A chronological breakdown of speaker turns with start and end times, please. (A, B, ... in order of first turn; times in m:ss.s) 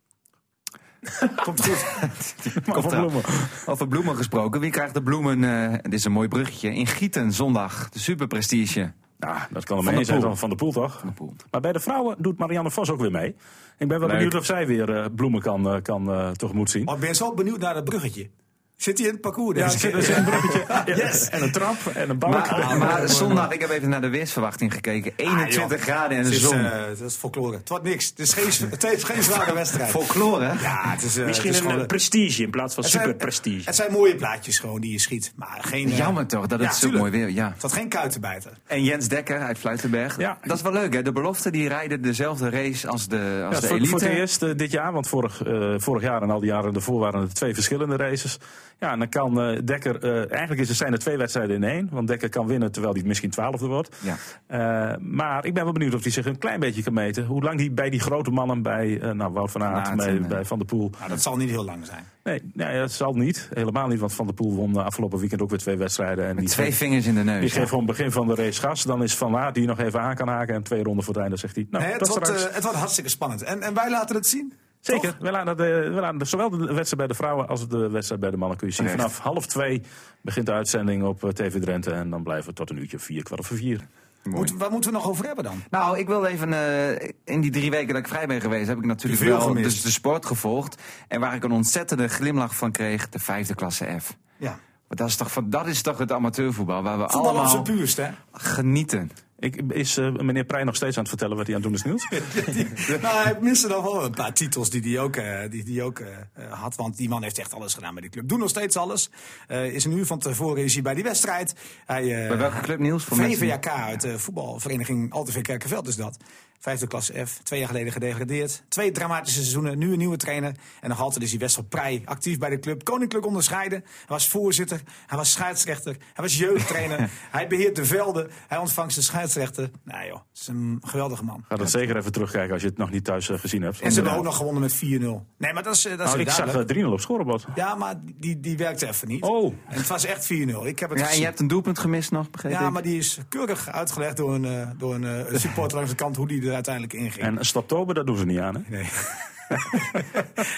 0:01.4-0:02.0 A
0:01.8-0:08.9 B
0:02.6-0:03.6 C
0:09.2-0:16.9 C
0:09.8-0:10.4 B
0:11.0-0:11.4 B
0:14.0-0:14.4 B
0:16.8-0:21.5 A
0:19.6-0:23.5 C
0:22.2-0:26.7 B
0:22.4-0:23.5 A
0:25.2-0:31.9 A
0:29.4-0:30.8 B
0:31.2-0:33.7 D
0:32.8-0:38.6 A
0:35.8-0:37.6 B
0:38.7-0:44.2 B
0:43.5-0:54.0 C
0:54.5-1:01.1 C
0:59.6-1:00.4 B
1:01.0-1:02.1 A
1:02.2-1:06.8 C
1:06.4-1:07.7 B
1:07.4-1:12.4 C
1:11.8-1:15.2 A
1:14.9-1:23.9 C
1:18.8-1:19.1 B
1:24.3-1:24.5 B
1:24.3-1:25.7 A
1:25.7-1:34.2 B
1:29.0-1:29.8 A
1:34.9-1:37.7 B
1:37.1-1:38.2 A
1:38.2-1:39.1 B
1:39.4-1:42.2 C
1:42.1-2:11.5 A
1:52.3-1:53.6 B
2:11.5-2:14.3 C
2:11.6-2:11.9 B
2:13.8-2:16.6 A
2:16.0-2:17.6 C
2:17.5-2:21.3 A
2:19.2-2:19.7 C
2:20.9-2:22.8 B
2:22.5-2:27.3 A
2:27.2-2:28.7 C
2:28.7-2:30.1 A